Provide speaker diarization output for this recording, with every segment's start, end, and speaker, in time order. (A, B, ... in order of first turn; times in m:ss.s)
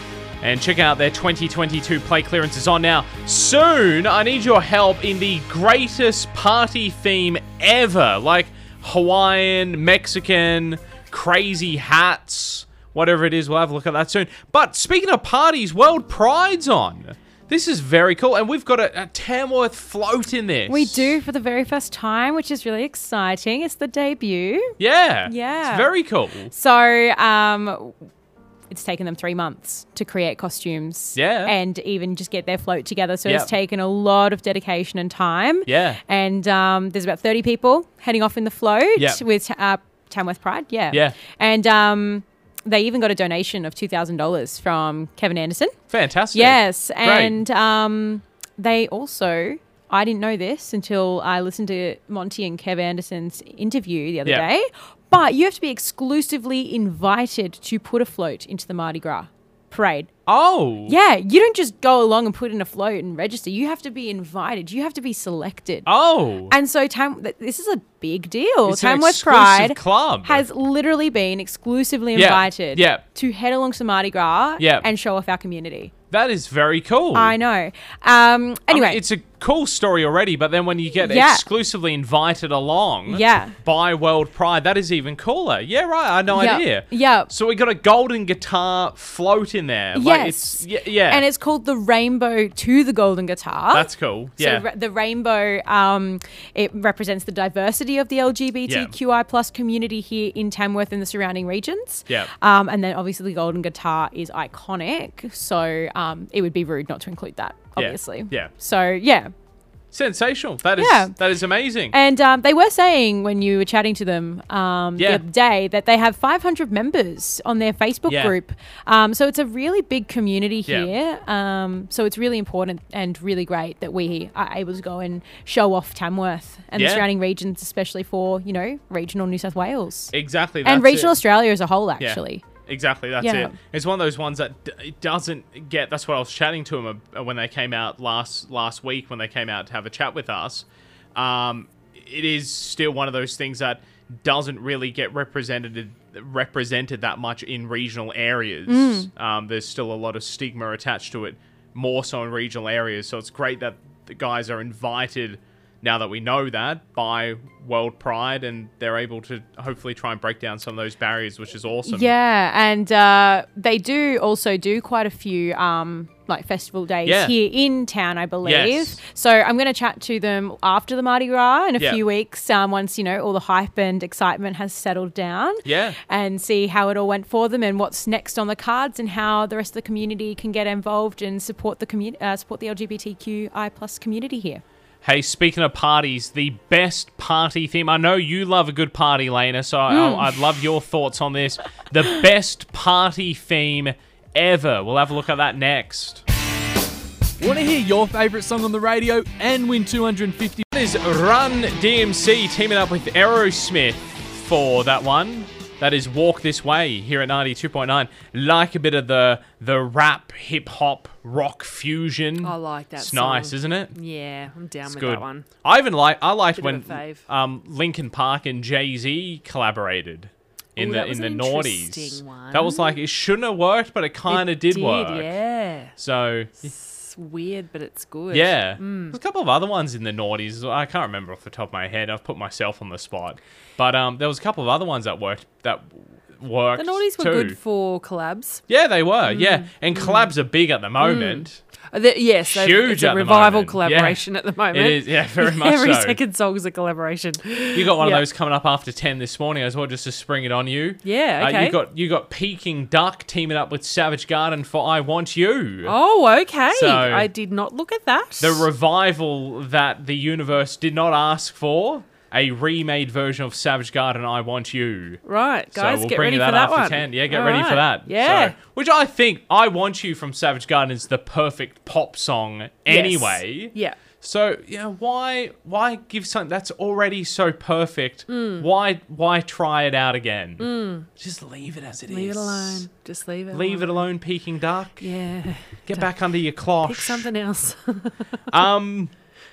0:00.4-0:21.2 A
0:20.7-0:25.9 B
0:24.8-0:26.5 A
0:26.5-0:27.9 B
0:28.7-0:45.8 B
0:31.1-0:31.5 A
0:33.2-0:33.5 A
0:35.6-0:36.0 A
0:39.0-0:39.2 A
0:40.9-0:41.2 A
0:45.9-0:47.4 A
0:46.3-1:00.1 B
1:00.3-1:01.0 A
1:00.8-1:05.9 B
1:05.8-1:06.5 A
1:06.5-1:15.9 B
1:08.6-1:10.4 A
1:12.1-1:13.0 A
1:14.6-1:14.8 A
1:16.1-1:17.4 A
1:17.1-1:19.0 B
1:18.7-1:31.2 A
1:21.0-1:21.4 B
1:23.1-1:23.6 B
1:26.3-1:27.3 B
1:29.9-1:49.3 B
1:33.7-1:34.6 A
1:38.7-1:38.9 A
1:47.8-1:48.5 A
1:49.9-1:51.9 A
1:50.8-1:51.1 B
1:51.9-2:12.4 B
1:55.0-1:55.2 A
1:58.1-1:58.3 A
2:00.7-2:00.9 A
2:06.7-2:07.1 A
2:10.1-2:11.2 A
2:12.0-2:20.6 A
2:13.2-2:13.5 B
2:21.2-2:42.1 A
2:28.7-2:29.1 B
2:41.8-3:04.6 B
2:47.0-2:47.3 A
2:48.4-2:49.0 A
2:55.6-2:56.0 A
3:05.0-3:16.2 A
3:09.9-3:10.3 B
3:17.4-3:20.6 C
3:20.7-3:33.9 A
3:32.4-3:35.5 D
3:34.9-3:45.4 A
3:36.5-3:37.2 D
3:40.8-3:42.9 D
3:44.3-3:45.9 D
3:46.0-3:46.6 A
3:46.6-3:49.2 D
3:48.3-3:57.6 A
3:56.8-3:58.6 D
3:58.7-4:01.6 A
3:59.2-4:00.3 D
4:01.0-4:08.2 D
4:02.4-4:06.2 A
4:07.7-4:16.0 A
4:11.0-4:11.8 D
4:15.8-4:18.7 D
4:16.7-4:17.3 A
4:18.4-4:25.2 A
4:25.2-4:28.5 D
4:25.7-4:42.8 A
4:32.9-4:34.0 D
4:38.3-4:38.7 D
4:40.6-4:41.1 D
4:42.1-4:44.1 D
4:43.5-4:45.1 A
4:45.0-4:46.1 D
4:45.8-4:47.3 A
4:46.8-4:48.2 D
4:48.5-4:49.1 A